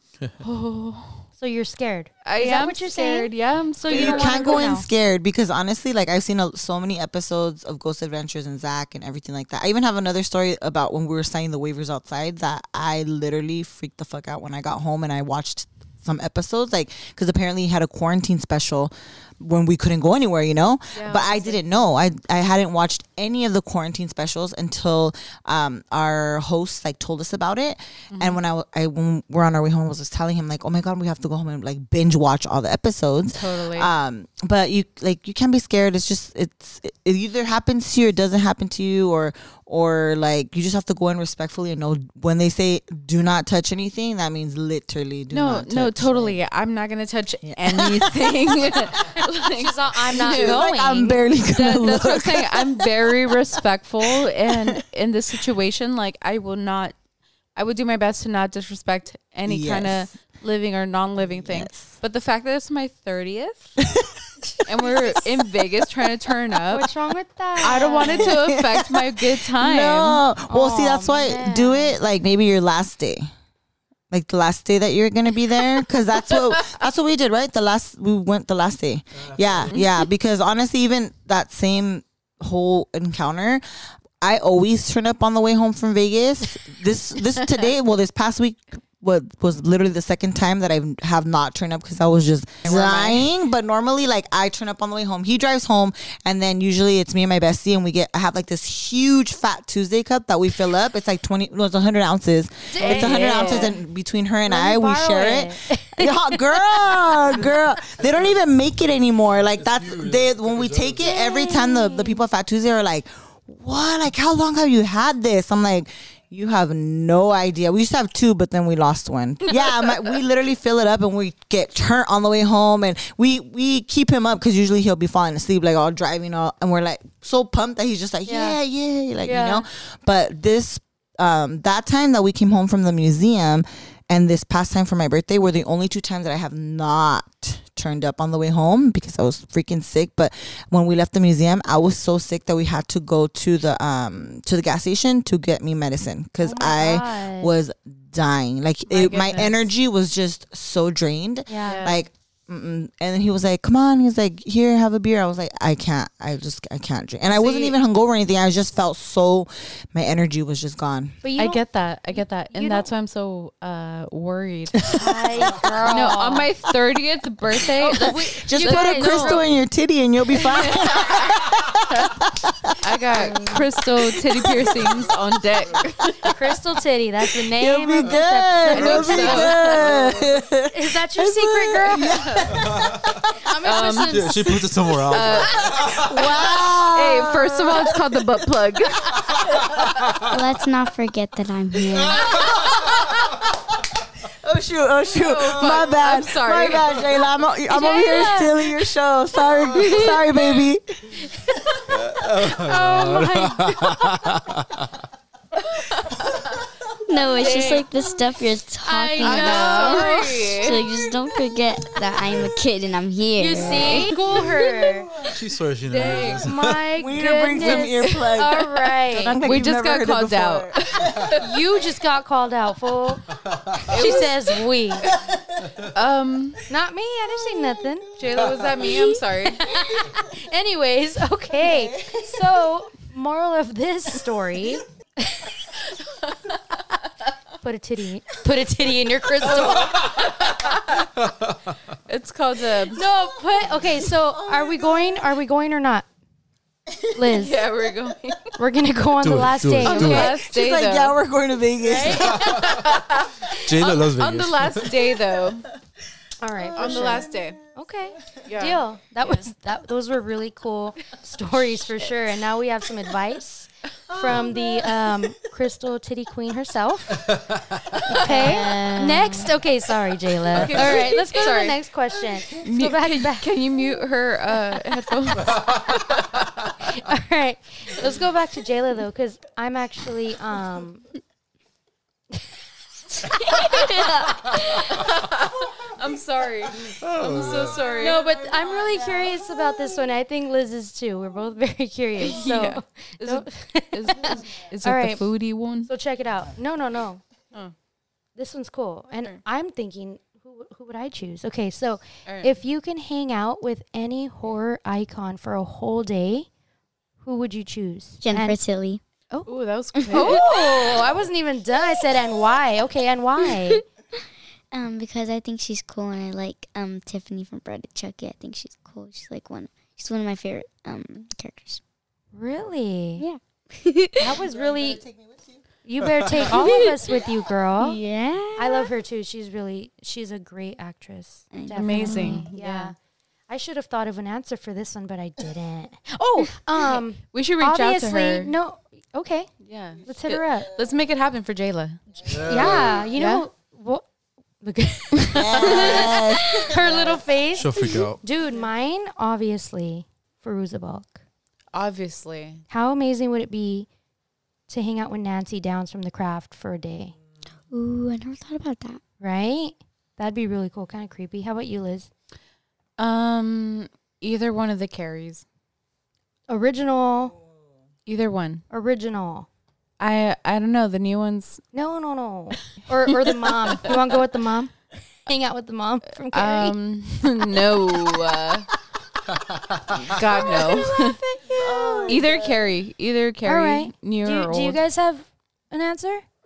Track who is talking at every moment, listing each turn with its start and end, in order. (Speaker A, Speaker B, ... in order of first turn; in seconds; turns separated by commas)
Speaker A: 0.4-1.3, Speaker B: 1.4-4.9, Speaker A: 2.2-4.7, Speaker C: 3.9-46.4, Speaker A: 20.9-21.8, Speaker A: 28.1-28.4, Speaker A: 33.4-33.9, Speaker A: 45.3-50.6, Speaker C: 47.4-48.8, Speaker B: 49.5-51.2, Speaker C: 50.1-54.8, Speaker A: 51.4-57.0, Speaker A: 57.6-63.8, Speaker C: 59.5-60.1, Speaker C: 61.2-61.9, Speaker A: 64.7-66.9, Speaker C: 64.8-65.3, Speaker B: 66.7-68.3, Speaker A: 67.6-70.2, Speaker C: 68.1-73.3, Speaker B: 70.5-72.0, Speaker C: 74.1-83.6, Speaker D: 79.2-79.8, Speaker A: 79.7-80.0, Speaker C: 84.2-161.2, Speaker A: 92.6-93.2, Speaker B: 102.7-103.8, Speaker A: 102.8-103.8, Speaker B: 104.5-107.6, Speaker D: 109.6-111.0, Speaker B: 111.0-112.2, Speaker B: 128.3-128.6, Speaker B: 129.2-129.6, Speaker B: 146.4-147.5, Speaker A: 148.9-149.7, Speaker B: 151.5-151.9, Speaker A: 151.6-152.1, Speaker A: 157.3-157.8, Speaker B: 161.2-162.9, Speaker A: 161.4-164.9, Speaker C: 164.8-165.9, Speaker B: 164.9-166.5, Speaker A: 165.8-169.5, Speaker B: 167.8-169.5, Speaker C: 168.1-174.8, Speaker A: 170.4-171.3, Speaker A: 172.8-176.3, Speaker B: 176.2-179.9, Speaker C: 177.5-183.1, Speaker A: 178.7-180.0, Speaker D: 178.8-179.4, Speaker B: 180.7-182.6, Speaker A: 182.2-182.4, Speaker D: 182.5-183.2, Speaker B: 183.3-184.7, Speaker A: 183.6-184.3, Speaker D: 183.9-186.1, Speaker A: 185.0-185.8, Speaker C: 185.9-188.2, Speaker A: 186.8-189.2, Speaker D: 189.8-190.3, Speaker E: 190.3-192.4, Speaker C: 194.4-201.3, Speaker A: 195.1-197.1, Speaker B: 197.7-198.6, Speaker E: 199.9-200.2, Speaker D: 201.9-204.9, Speaker B: 202.4-204.1, Speaker A: 205.9-206.2, Speaker E: 207.1-214.1, Speaker B: 207.4-207.8, Speaker A: 207.5-207.8, Speaker B: 208.8-210.4, Speaker A: 209.2-210.9, Speaker B: 213.4-215.1, Speaker A: 213.8-214.4, Speaker C: 214.8-215.4, Speaker D: 215.2-216.8, Speaker A: 215.8-216.5, Speaker B: 216.1-219.4, Speaker C: 216.9-221.3, Speaker A: 217.5-218.3, Speaker A: 219.4-221.4, Speaker B: 221.3-225.1, Speaker A: 223.8-224.5, Speaker A: 225.9-226.6, Speaker B: 226.7-228.1, Speaker A: 228.2-229.8, Speaker C: 228.3-229.1, Speaker B: 229.5-235.5, Speaker C: 231.6-232.4, Speaker A: 235.9-236.8, Speaker B: 237.6-240.2, Speaker A: 239.5-241.0, Speaker D: 239.8-240.2, Speaker D: 241.2-241.8, Speaker A: 242.1-243.0, Speaker B: 242.9-246.1, Speaker C: 243.2-245.3, Speaker C: 246.9-247.3, Speaker B: 247.1-247.7, Speaker A: 247.3-248.5, Speaker B: 248.6-250.3, Speaker D: 249.2-250.4, Speaker A: 249.8-251.2, Speaker C: 250.1-252.7, Speaker B: 251.8-252.7, Speaker D: 252.3-252.7, Speaker A: 252.5-255.7, Speaker D: 253.5-255.0, Speaker B: 256.4-267.4, Speaker C: 256.6-257.6, Speaker A: 256.8-257.6, Speaker A: 258.5-258.8, Speaker B: 268.0-273.6, Speaker E: 268.1-269.5, Speaker A: 268.2-268.9, Speaker A: 270.6-271.8, Speaker A: 272.5-275.6, Speaker B: 276.8-281.1, Speaker B: 283.2-284.9, Speaker A: 283.7-288.2, Speaker D: 286.9-287.9, Speaker B: 288.0-295.3, Speaker C: 288.2-289.4, Speaker A: 292.2-295.9, Speaker B: 295.8-297.2, Speaker B: 298.4-306.5, Speaker A: 302.3-302.5, Speaker B: 307.2-308.6, Speaker E: 308.2-309.0, Speaker A: 309.4-311.0, Speaker E: 310.0-310.4, Speaker B: 310.1-313.8, Speaker E: 314.7-321.8, Speaker B: 322.3-323.2, Speaker E: 323.2-324.3, Speaker B: 324.2-325.0, Speaker C: 324.5-325.6, Speaker B: 325.8-328.0, Speaker E: 326.5-326.9, Speaker E: 327.8-328.9, Speaker B: 328.6-332.9, Speaker E: 331.5-332.5, Speaker A: 331.7-332.9, Speaker B: 333.5-339.5, Speaker A: 337.3-338.5, Speaker A: 339.6-342.2, Speaker B: 340.0-340.7, Speaker D: 342.2-343.1, Speaker B: 342.4-344.1, Speaker A: 343.1-343.4, Speaker B: 344.6-351.2, Speaker C: 345.3-346.7, Speaker D: 347.5-348.2, Speaker A: 351.7-352.6, Speaker B: 352.7-353.9, Speaker B: 354.7-357.1, Speaker E: 357.7-359.0, Speaker B: 359.2-362.1, Speaker A: 363.0-365.4, Speaker B: 366.5-367.4, Speaker A: 368.1-368.6, Speaker B: 368.7-369.5, Speaker A: 370.0-371.6, Speaker B: 371.7-374.7, Speaker A: 373.5-373.9, Speaker B: 375.3-376.8, Speaker A: 376.2-378.7, Speaker D: 379.5-380.1, Speaker A: 380.0-381.2, Speaker C: 380.4-382.7, Speaker B: 381.6-382.1, Speaker A: 382.1-384.8, Speaker B: 383.4-386.2